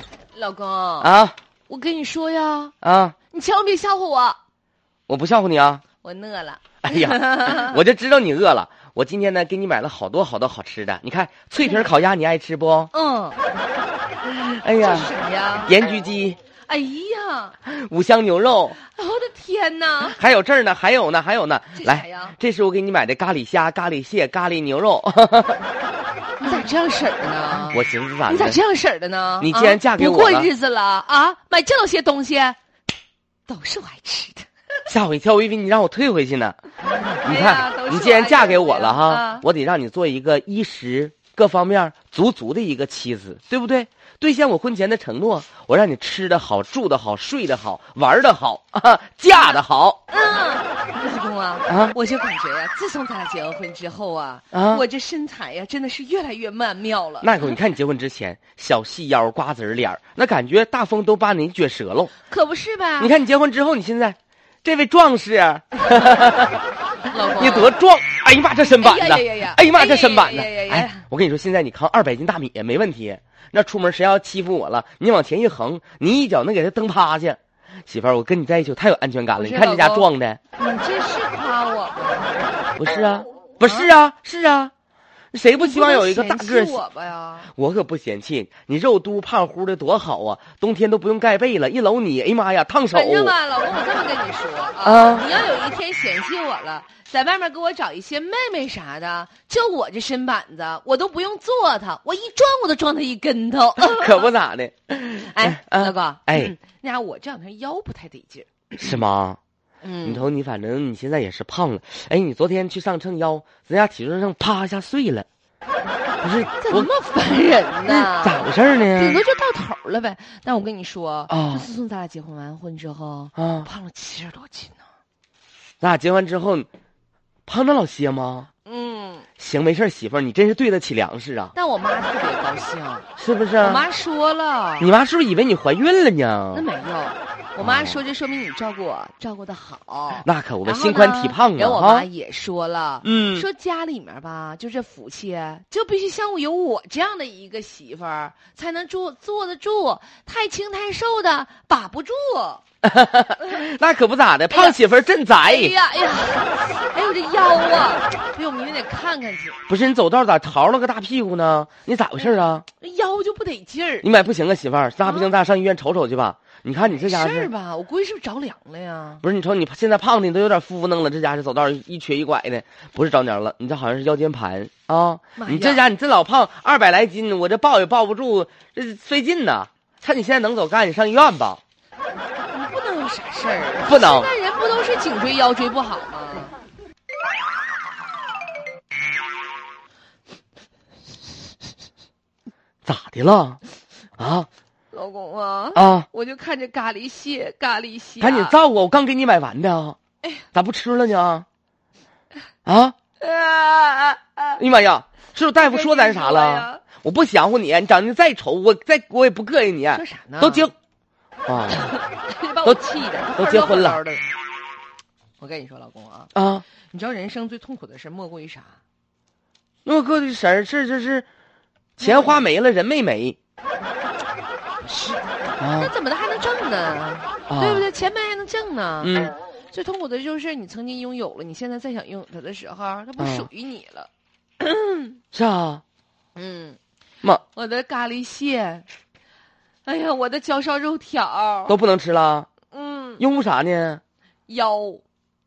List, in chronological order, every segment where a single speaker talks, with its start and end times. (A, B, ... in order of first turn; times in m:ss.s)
0:00.3-0:01.1 A
0:01.0-0:01.3 B
0:01.7-0:02.7 A
0:02.8-0:03.1 B
0:03.3-0:04.4 A
0:05.1-0:05.8 B
0:06.0-0:07.8 A
0:06.8-0:12.9 B
0:12.9-0:13.4 A
0:14.3-0:15.1 B
0:14.7-0:15.8 A
0:15.6-0:16.4 B
0:16.6-0:17.6 A
0:17.6-0:18.8 B
0:18.8-0:20.2 A
0:20.2-0:25.6 B
0:21.8-0:22.4 A
0:26.4-0:32.6 A
0:27.7-0:28.6 B
0:29.4-0:30.5 B
0:33.5-0:34.5 A
0:34.9-0:36.6 B
0:37.1-0:39.4 A
0:37.2-0:50.0 B
0:49.3-0:57.5 A
0:51.7-0:51.9 B
0:54.5-0:54.8 B
0:57.2-1:02.1 B
1:02.3-1:03.1 A
1:03.0-1:06.6 B
1:07.1-1:07.7 A
1:07.3-1:20.4 B
1:08.8-1:11.0 A
1:19.3-1:22.6 A
1:22.8-1:24.7 B
1:23.6-1:23.9 A
1:25.3-1:26.8 B
1:25.6-1:27.5 A
1:27.5-1:33.3 B
1:32.9-1:44.3 A
1:34.8-1:35.2 B
1:43.8-1:46.5 B
1:44.9-1:49.0 A
1:48.8-1:49.4 B
1:49.8-1:50.3 A
1:50.0-1:55.3 B
1:56.2-1:56.9 B
1:56.6-2:04.8 A
1:57.9-1:59.2 B
2:01.3-2:01.6 B
2:03.4-2:03.7 B
2:05.8-2:06.7 B
2:07.4-2:08.5 B
2:08.6-2:09.2 A
2:09.4-2:11.5 B
2:11.5-2:13.1 A
2:13.2-2:13.8 B
2:13.6-2:14.9 A
2:14.8-2:16.6 B
2:16.5-2:32.6 A
2:17.6-2:18.0 B
2:20.2-2:22.1 B
2:23.0-2:23.5 B
2:32.8-2:35.7 B
2:34.5-2:34.8 A
2:35.4-2:39.6 A
2:39.7-2:42.6 B
2:42.2-2:44.0 A
2:44.0-2:47.5 B
2:45.0-2:45.3 A
2:46.9-2:49.2 A
2:49.2-3:01.6 B
2:55.4-2:55.8 A
3:02.5-3:06.6 A
3:03.8-3:04.3 B
3:12.8-3:13.6 B
3:14.2-3:14.5 B
3:14.9-3:18.6 A
3:15.7-3:16.1 B
3:18.2-3:20.0 B
3:20.5-3:21.4 B
3:22.6-3:23.0 B
3:23.2-3:24.6 A
3:24.6-3:30.7 B
3:25.6-3:26.8 A
3:29.9-3:30.7 A
3:31.5-3:31.9 B
3:31.7-3:34.2 A
3:33.3-3:34.0 B
3:35.4-3:36.3 A
3:36.3-3:36.6 B
3:36.8-3:38.8 A
3:39.8-3:41.3 B
3:42.0-3:43.4 B
3:42.0-3:42.4 A
3:44.8-3:55.2 A
3:45.6-3:45.9 B
3:47.5-3:47.8 B
3:49.0-3:49.3 B
3:53.2-3:53.5 B
3:55.3-3:55.8 B
3:56.3-3:56.8 A
3:57.5-3:58.8 A
3:59.8-4:01.8 A
4:01.7-4:02.5 B
4:02.7-4:03.2 A
4:03.2-4:04.0 B
4:04.5-4:05.0 A